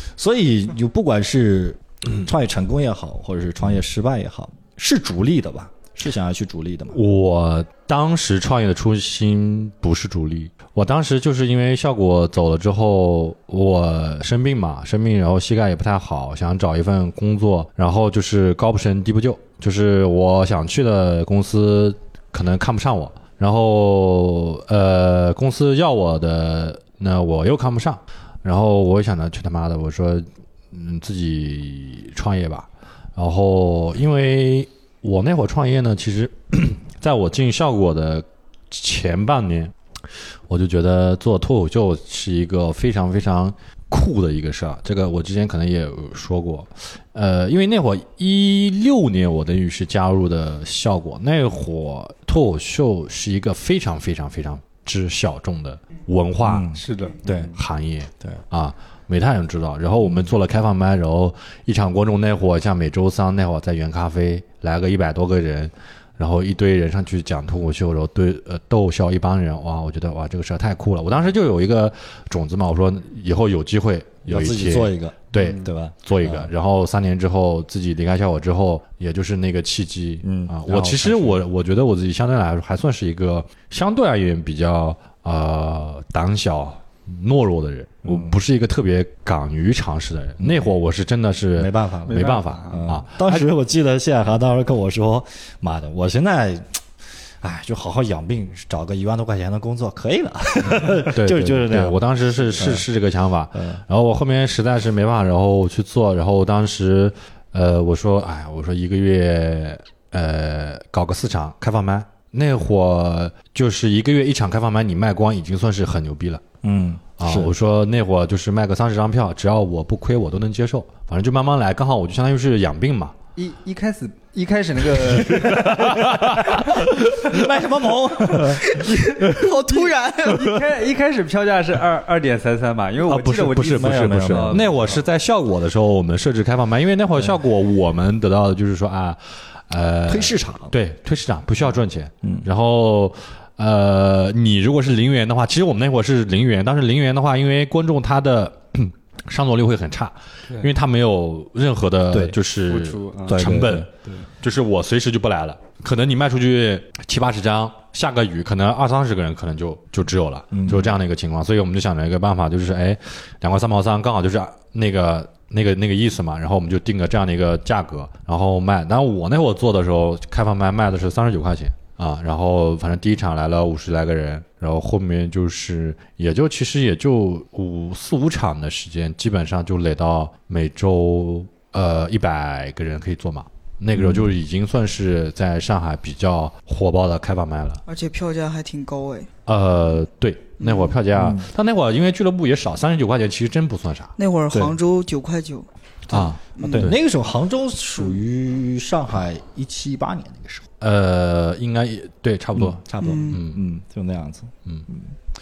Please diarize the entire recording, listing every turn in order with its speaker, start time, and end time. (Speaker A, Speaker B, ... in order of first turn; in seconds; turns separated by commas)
Speaker A: 0.2-7.0, Speaker B: 6.9-39.7, Speaker B: 40.5-56.7, Speaker A: 56.4-57.5, Speaker C: 56.7-57.5, Speaker B: 57.5-93.5, Speaker A: 74.3-76.5, Speaker A: 80.2-81.4, Speaker A: 88.0-88.4, Speaker A: 90.4-90.7, Speaker A: 91.5-96.8, Speaker C: 92.1-92.9, Speaker A: 97.4-102.9, Speaker B: 100.7-116.5, Speaker A: 103.5-103.8, Speaker A: 116.6-117.5, Speaker B: 117.2-123.2, Speaker C: 123.4-126.7, Speaker B: 125.2-126.9, Speaker A: 125.5-128.7, Speaker D: 128.6-130.6, Speaker C: 128.7-135.0, Speaker B: 133.1-153.9, Speaker A: 133.7-134.8, Speaker A: 140.1-140.7, Speaker A: 152.1-152.4, Speaker C: 152.7-153.5, Speaker A: 153.3-153.9, Speaker B: 154.4-187.8, Speaker A: 160.5-161.0, Speaker A: 183.9-184.3, Speaker D: 187.9-189.3, Speaker B: 189.5-194.1, Speaker D: 190.6-190.9, Speaker A: 191.1-191.5, Speaker D: 194.2-195.7, Speaker B: 196.1-196.9, Speaker A: 196.1-200.7, Speaker D: 196.6-196.9, Speaker B: 200.8-203.6, Speaker A: 202.6-205.1, Speaker D: 203.0-203.4